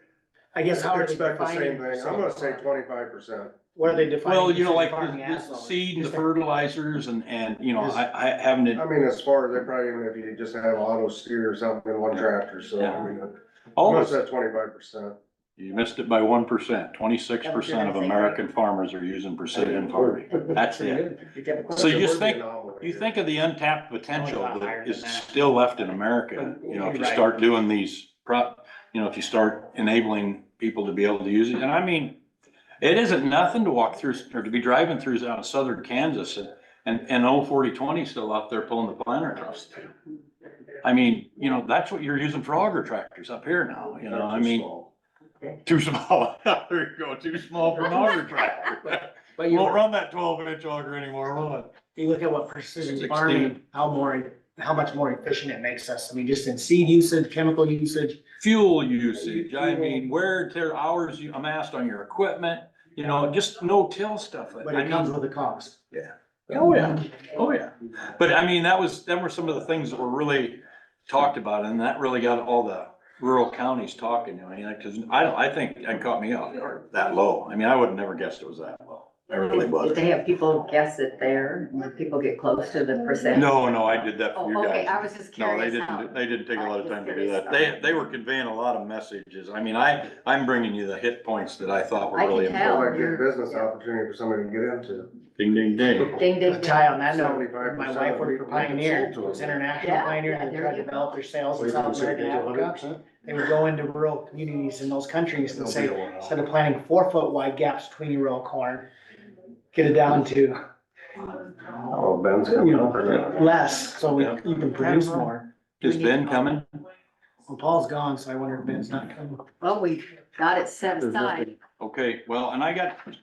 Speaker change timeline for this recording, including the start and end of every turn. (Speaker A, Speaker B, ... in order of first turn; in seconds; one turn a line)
Speaker A: 0.5-2.6
Speaker B: 0.8-3.5
Speaker A: 3.7-6.2
Speaker C: 4.2-8.8
Speaker B: 8.7-15.2
Speaker C: 13.8-14.2
Speaker C: 15.6-21.1
Speaker A: 17.8-18.1
Speaker A: 20.5-21.7
Speaker B: 21.5-23.1
Speaker C: 21.7-32.2
Speaker A: 24.1-25.4
Speaker A: 26.4-27.3
Speaker C: 32.8-39.9
Speaker C: 40.8-44.7
Speaker B: 44.1-44.9
Speaker C: 45.6-51.8
Speaker A: 49.4-49.8
Speaker A: 51.9-58.2
Speaker C: 52.8-53.6
Speaker C: 58.4-65.1
Speaker A: 64.6-65.8
Speaker C: 65.9-80.0
Speaker D: 79.6-83.5
Speaker C: 83.3-93.0
Speaker D: 84.3-87.7
Speaker D: 92.1-93.7
Speaker B: 92.6-95.1
Speaker C: 95.4-96.2
Speaker D: 96.0-97.0
Speaker A: 96.4-108.9
Speaker B: 97.1-99.6
Speaker D: 99.8-101.3
Speaker B: 101.5-102.9
Speaker B: 105.5-106.3
Speaker A: 109.7-110.6
Speaker B: 111.7-113.5
Speaker A: 112.5-115.5
Speaker C: 115.0-116.7
Speaker D: 115.8-116.5
Speaker A: 117.5-119.4
Speaker D: 119.6-121.5
Speaker C: 121.8-123.0